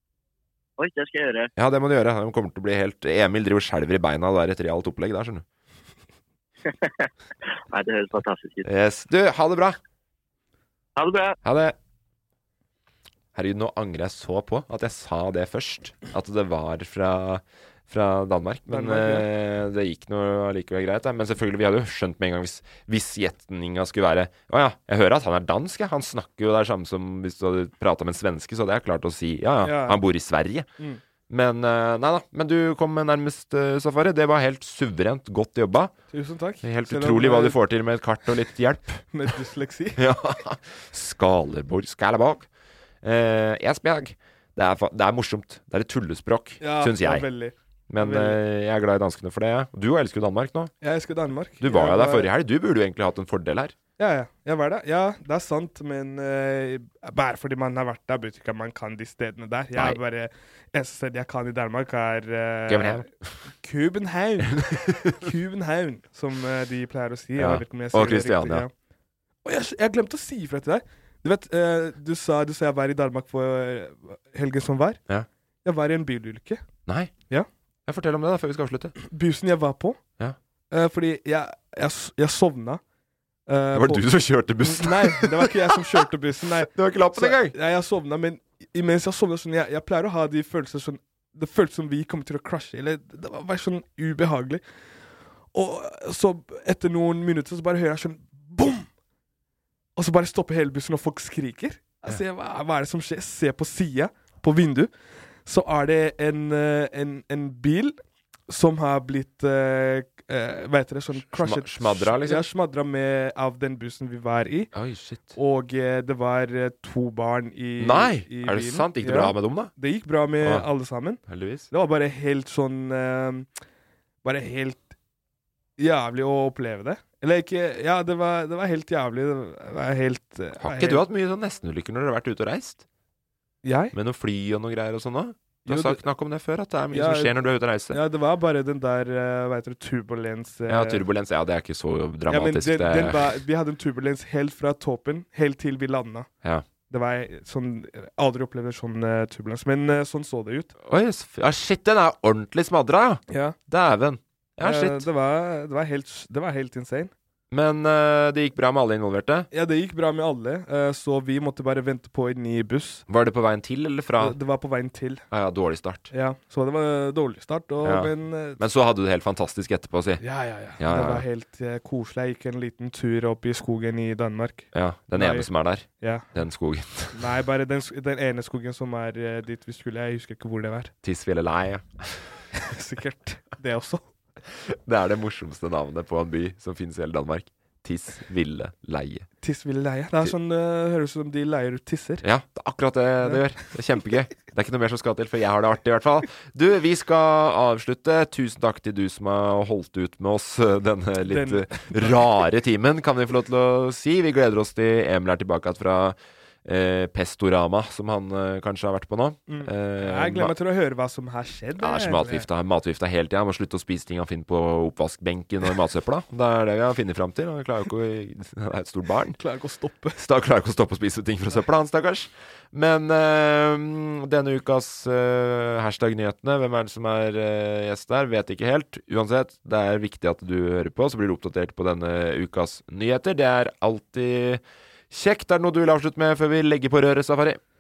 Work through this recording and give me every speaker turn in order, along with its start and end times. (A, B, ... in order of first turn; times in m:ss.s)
0:00.8-0:01.5 A
0:01.6-0:05.4 B
0:06.7-0:07.1 A
0:07.7-0:08.6 A
0:08.6-0:09.8 B
0:11.0-0:11.4 A
0:11.4-0:11.8 B
0:13.3-0:30.7 B
0:18.7-0:19.3 C
0:29.6-0:30.0 C
0:31.3-0:35.9 B
0:36.1-0:37.6 C
0:36.6-0:39.1 B
0:39.1-0:40.0 C
0:40.0-0:42.5 B
0:43.0-0:47.3 B
0:46.6-0:48.4 C
0:47.9-0:50.7 B
0:50.8-0:52.3 C
0:51.6-0:53.7 B
0:54.0-1:04.6 C
1:02.7-1:03.1 B
1:04.4-1:05.2 B
1:05.1-1:08.7 C
1:07.4-1:08.7 B
1:09.4-1:15.0 C
1:15.6-1:16.6 C
1:16.8-1:17.1 B
1:17.9-1:18.9 B
1:19.0-1:20.0 C
1:20.7-1:22.8 C
1:23.5-1:24.1 C
1:23.7-1:26.0 B
1:24.6-1:34.6 C
1:26.7-1:27.5 B
1:35.5-1:38.9 C
1:40.0-1:44.9 C
1:45.4-1:48.0 C
1:48.5-1:54.7 C
1:51.3-1:52.4 B
1:54.7-1:55.4 B
1:55.3-2:03.5 C
1:57.8-1:59.7 B
2:00.4-2:00.7 B
2:01.3-2:01.7 B
2:04.2-2:04.9 C
2:05.8-2:11.0 C
2:10.6-2:12.8 B
2:13.6-2:13.9 C
2:13.9-2:18.0 B
2:15.6-2:16.0 C
2:16.9-2:17.3 C
2:17.9-2:21.0 C
2:20.7-2:23.4 B
2:22.3-2:26.3 C
2:26.9-2:30.7 C
2:30.8-2:35.1 B
2:33.3-2:33.6 C
2:34.6-2:37.1 C
2:37.5-2:39.5 B
2:39.5-2:43.0 C
2:43.1-2:44.4 B
2:44.2-2:45.2 C
2:45.3-2:46.1 B
2:46.1-2:48.6 C
2:47.8-2:51.2 B
2:50.2-2:55.5 C
2:54.7-2:57.3 B
2:56.0-2:56.3 C
2:57.1-3:00.9 C
3:01.0-3:02.3 B
3:02.5-3:04.0 C
3:04.6-3:09.3 B
3:09.4-3:12.2 C
3:12.2-3:30.5 B
3:21.2-3:22.2 C
3:29.5-3:32.5 C
3:31.8-3:39.4 B
3:39.4-3:40.2 C
3:40.2-3:57.6 B